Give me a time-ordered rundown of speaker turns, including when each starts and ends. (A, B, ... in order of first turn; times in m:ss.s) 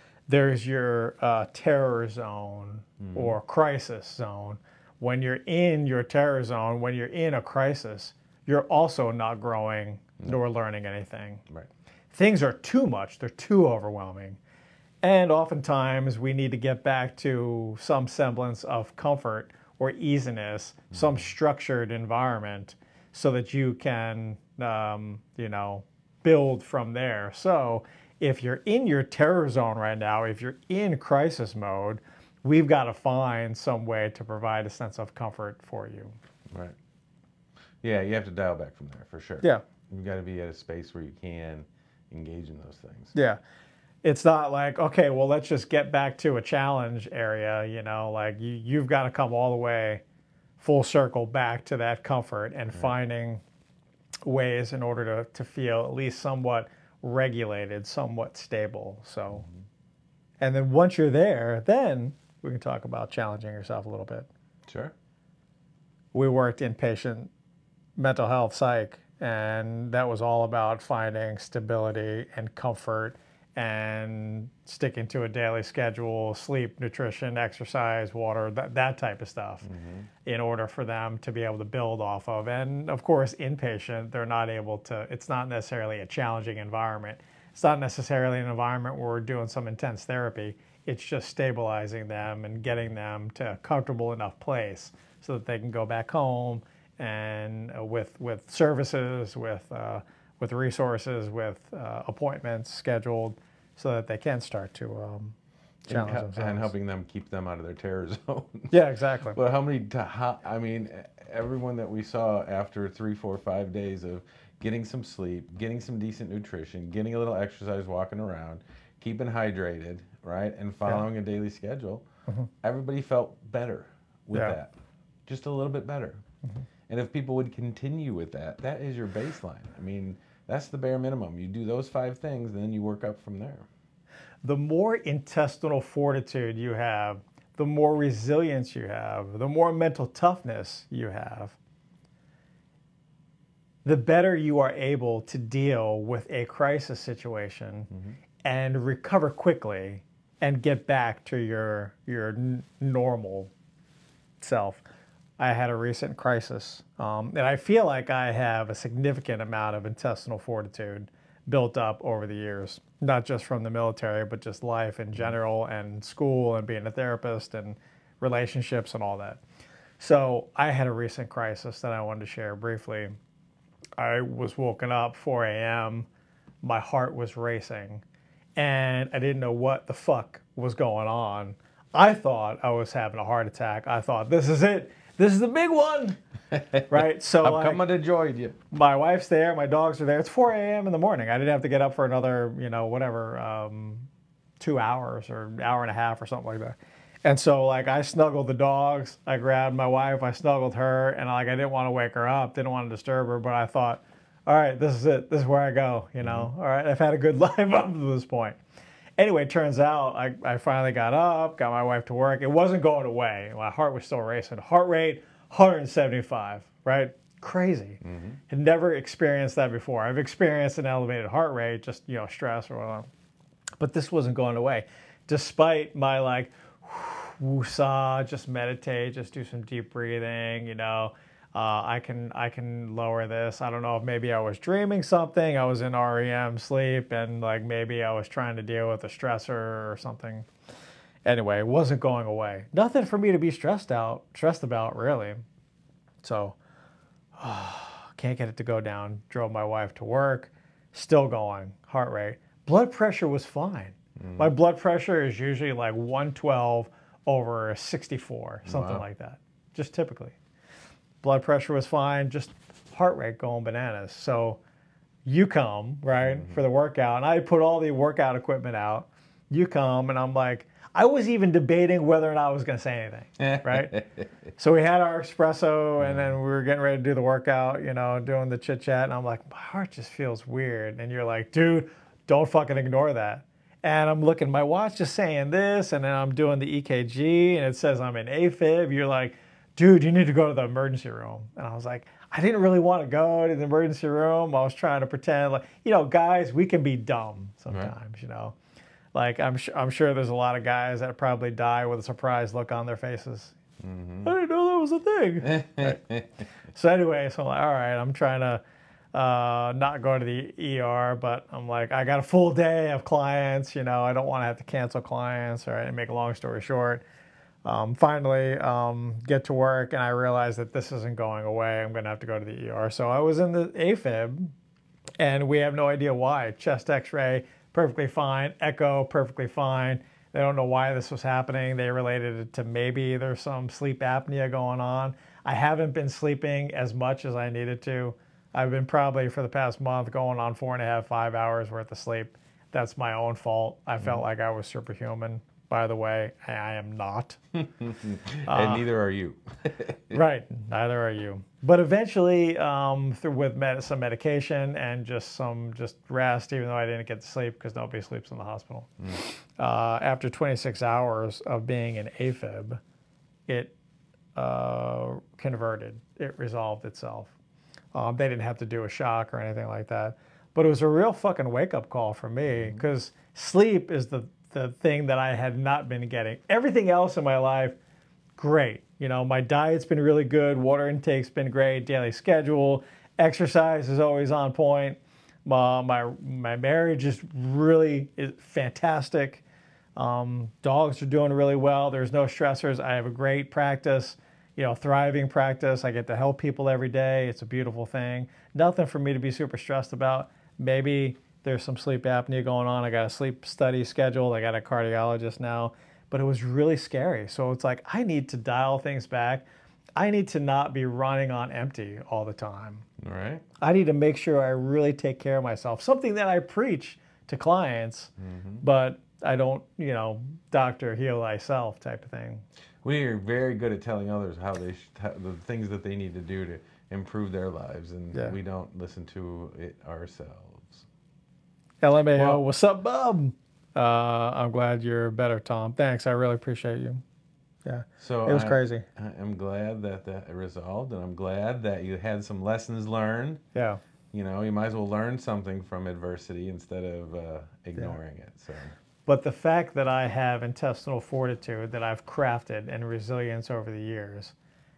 0:00.3-0:11.4 A
0:03.0-0:03.4 B
0:12.1-0:14.4 A
0:15.0-0:36.2 A
0:20.9-0:21.3 B
0:36.5-0:36.8 B
0:37.8-0:43.1 B
0:43.1-0:43.4 A
0:44.0-0:50.0 A
0:50.6-0:53.4 A
0:54.3-0:59.5 A
1:00.4-1:04.3 A
1:04.7-1:04.9 B
1:06.1-1:07.3 A
1:08.0-1:19.7 A
1:19.6-1:20.1 B
1:20.2-1:45.4 A
1:45.9-2:02.0 B
1:45.9-1:46.7 A
1:48.7-1:49.4 A
2:02.6-2:04.7 B
2:05.3-2:06.2 B
2:06.9-2:13.7 B
2:14.4-2:21.6 A
2:23.8-2:27.9 A
2:27.9-2:28.2 B
2:28.4-2:33.5 A
2:34.4-2:34.8 A
2:35.4-2:49.4 A
2:50.0-2:53.2 A
2:54.0-2:56.1 A
2:56.6-2:58.0 A
2:58.6-3:06.2 A
3:06.5-3:08.6 B
3:06.9-3:07.8 A
3:08.7-3:14.1 A
3:14.6-3:28.6 A
3:26.2-3:26.5 B
3:29.2-3:43.1 A
3:38.0-3:38.4 B
3:43.8-4:00.5 A
4:01.2-4:05.4 A
4:06.2-4:06.6 A
4:07.4-4:20.4 A
4:14.2-4:14.5 B
4:18.6-4:19.0 B
4:21.2-4:24.6 A
4:25.2-4:34.0 A
4:26.2-4:26.6 B
4:33.4-4:34.3 B
4:34.6-4:58.6 A
4:36.0-4:36.4 B
4:59.1-5:03.6 A
5:03.8-5:04.3 B
5:04.2-5:06.0 A
5:05.4-5:06.4 B
5:06.7-5:08.6 A
5:09.1-5:17.0 A
5:17.6-5:24.5 A
5:25.2-5:47.4 A
5:44.0-5:44.2 B
5:47.6-5:50.2 B
5:48.5-5:48.8 A
5:50.1-6:02.8 A
6:03.5-6:03.7 A
6:04.4-6:07.3 A
6:07.9-6:17.8 A
6:12.5-6:12.8 B
6:18.4-6:29.4 A
6:30.0-6:49.4 A
6:50.0-6:52.9 A
6:53.0-6:53.4 B
6:53.6-7:02.4 A
6:58.2-6:58.6 B
7:02.8-7:10.9 B
7:11.8-7:17.0 A
7:12.2-7:12.4 B
7:17.6-7:18.8 A
7:18.0-7:23.4 B
7:23.5-7:23.8 A
7:24.1-7:28.7 B
7:29.1-7:34.4 A